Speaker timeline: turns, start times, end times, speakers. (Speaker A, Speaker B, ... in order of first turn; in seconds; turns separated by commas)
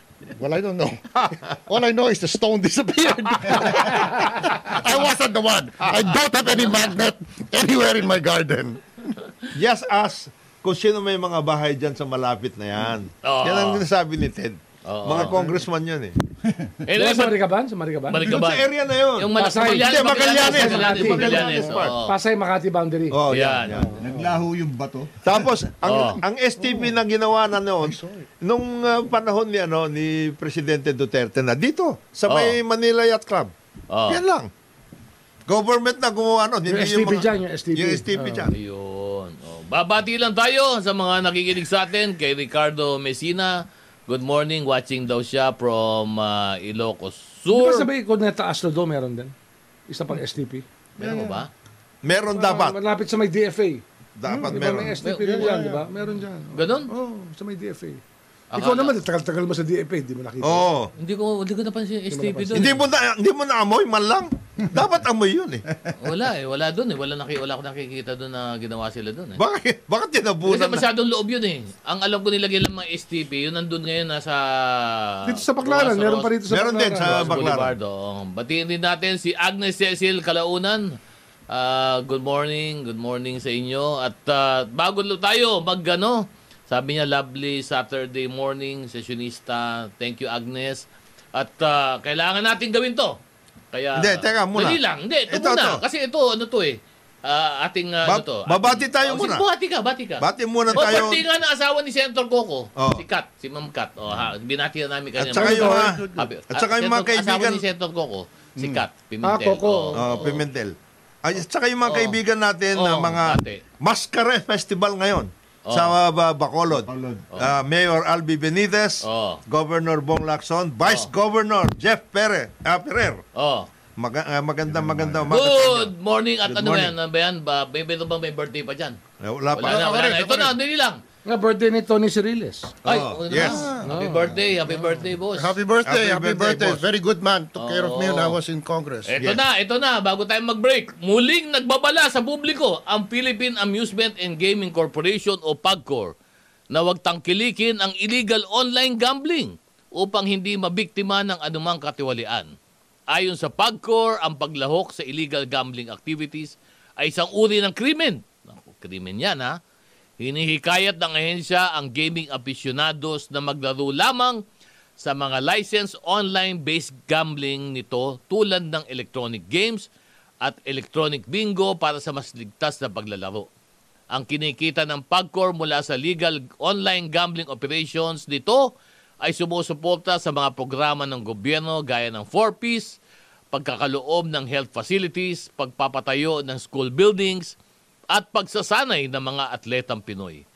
Speaker A: 0.4-9.2, Speaker B: 9.5-16.2, Speaker C: 13.2-13.8, Speaker C: 14.8-15.4, Speaker C: 16.9-17.4, Speaker D: 16.9-18.2, Speaker C: 18.1-22.1, Speaker B: 18.2-22.0, Speaker D: 19.4-23.2, Speaker A: 20.9-21.8, Speaker B: 23.1-24.0, Speaker C: 23.3-23.9, Speaker D: 23.7-24.3, Speaker E: 24.0-25.2, Speaker B: 25.2-33.5, Speaker C: 25.8-26.2, Speaker A: 26.6-26.9, Speaker A: 27.9-28.3, Speaker C: 32.3-32.6, Speaker C: 33.9-34.2, Speaker B: 34.1-34.5, Speaker B: 35.5-38.5, Speaker D: 36.7-38.5, Speaker C: 38.5-47.9, Speaker D: 47.5-49.3, Speaker D: 49.9-50.6, Speaker C: 51.0-51.5, Speaker A: 51.0-51.4, Speaker B: 52.0-52.8, Speaker D: 52.3-53.8, Speaker B: 54.2-55.0, Speaker A: 54.3-54.6, Speaker D: 54.4-58.0, Speaker C: 55.0-55.6, Speaker A: 55.2-55.9, Speaker C: 56.5-56.9, Speaker C: 58.5-59.0, Speaker D: 58.5-60.7, Speaker B: 60.4-60.9, Speaker C: 61.0-62.8, Speaker D: 62.1-62.7, Speaker B: 62.5-65.6, Speaker C: 66.0-69.4, Speaker B: 69.4-70.9, Speaker C: 70.5-76.3, Speaker D: 75.2-77.5, Speaker B: 76.5-77.8, Speaker C: 77.0-80.9, Speaker C: 81.5-93.2, Speaker C: 93.7-110.4, Speaker B: 94.0-95.8, Speaker B: 98.0-99.5, Speaker B: 100.2-101.2, Speaker B: 102.8-103.0, Speaker B: 105.2-107.6, Speaker A: 105.3-106.3, Speaker D: 109.2-110.1, Speaker B: 110.0-123.2, Speaker C: 111.9-112.2, Speaker C: 112.8-113.6, Speaker C: 115.7-115.9, Speaker E: 116.7-117.3, Speaker C: 119.0-119.4, Speaker C: 123.3-123.7, Speaker B: 124.0-125.9, Speaker E: 124.7-125.3, Speaker C: 125.3-129.0, Speaker B: 126.5-126.9, Speaker B: 129.2-130.5, Speaker C: 129.6-131.0, Speaker A: 129.7-130.5, Speaker D: 131.3-132.8, Speaker B: 132.8-133.7, Speaker C: 132.8-135.6, Speaker A: 133.3-133.9, Speaker D: 133.8-134.4, Speaker A: 135.3-139.1, Speaker B: 135.8-136.8, Speaker C: 137.6-138.4, Speaker C: 139.1-146.1, Speaker C: 146.7-152.5, Speaker C: 153.1-159.6, Speaker C: 160.2-164.4, Speaker C: 165.0-169.9, Speaker C: 170.4-173.5, Speaker C: 174.1-178.7, Speaker C: 179.2-183.0, Speaker C: 183.5-187.5, Speaker C: 188.1-190.4